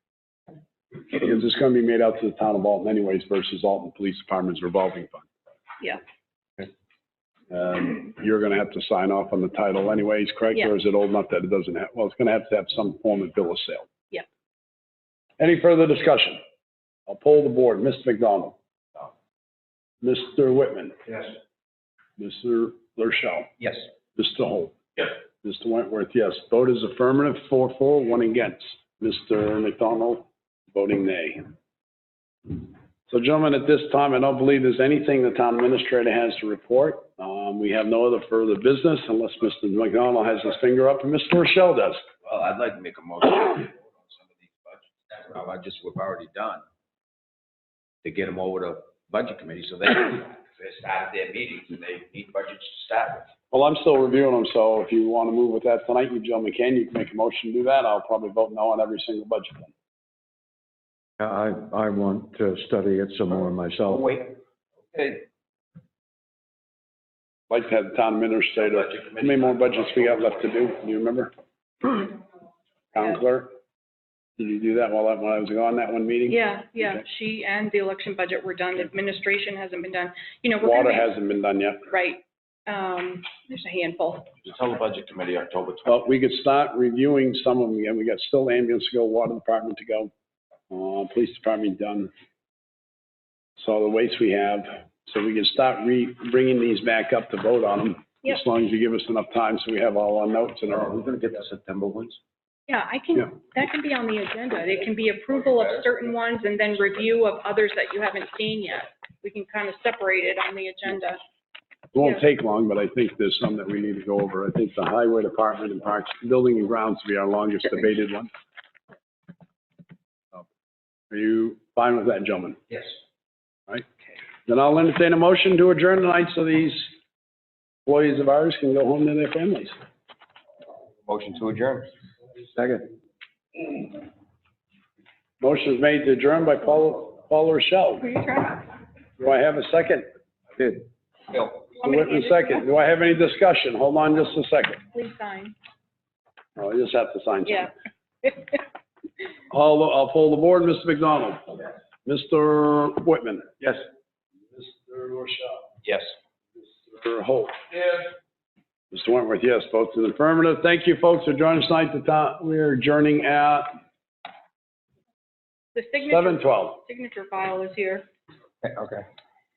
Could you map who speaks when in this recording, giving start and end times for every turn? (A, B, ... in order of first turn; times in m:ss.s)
0:01.1-0:05.3 A
0:07.5-0:13.9 A
0:15.4-0:16.4 A
0:17.1-0:18.6 A
0:20.0-0:21.3 A
0:22.2-0:31.5 A
0:32.5-0:42.0 A
0:42.2-0:46.6 B
0:48.0-0:53.3 B
0:53.5-0:59.7 A
1:01.2-1:04.1 C
1:03.9-1:04.3 B
1:04.9-1:05.2 B
1:07.5-1:11.3 A
1:08.6-1:10.4 B
1:12.9-1:13.5 A
1:14.4-1:17.0 A
1:16.3-1:21.1 D
1:20.6-1:21.9 A
1:21.9-1:24.4 D
1:24.4-1:26.0 B
1:25.9-1:30.1 A
1:30.7-1:32.1 A
1:33.6-1:41.0 A
1:40.7-1:42.2 B
1:42.7-1:51.2 D
1:45.5-1:45.8 B
1:51.9-1:58.3 A
2:01.1-2:02.6 A
2:04.5-2:06.9 A
2:07.9-2:09.8 A
2:11.1-2:11.9 B
2:15.4-2:18.1 A
2:18.0-2:18.7 D
2:19.2-2:20.1 A
2:20.6-2:21.7 B
2:21.8-2:22.7 D
2:21.8-2:24.8 A
2:24.9-2:25.6 D
2:26.6-2:27.7 A
2:29.5-2:33.8 A
2:34.5-2:35.7 A
2:35.8-2:36.1 B
2:36.6-2:37.7 A
2:38.9-2:43.7 A
2:45.8-2:48.1 D
2:46.0-2:46.8 A
2:48.6-2:49.1 B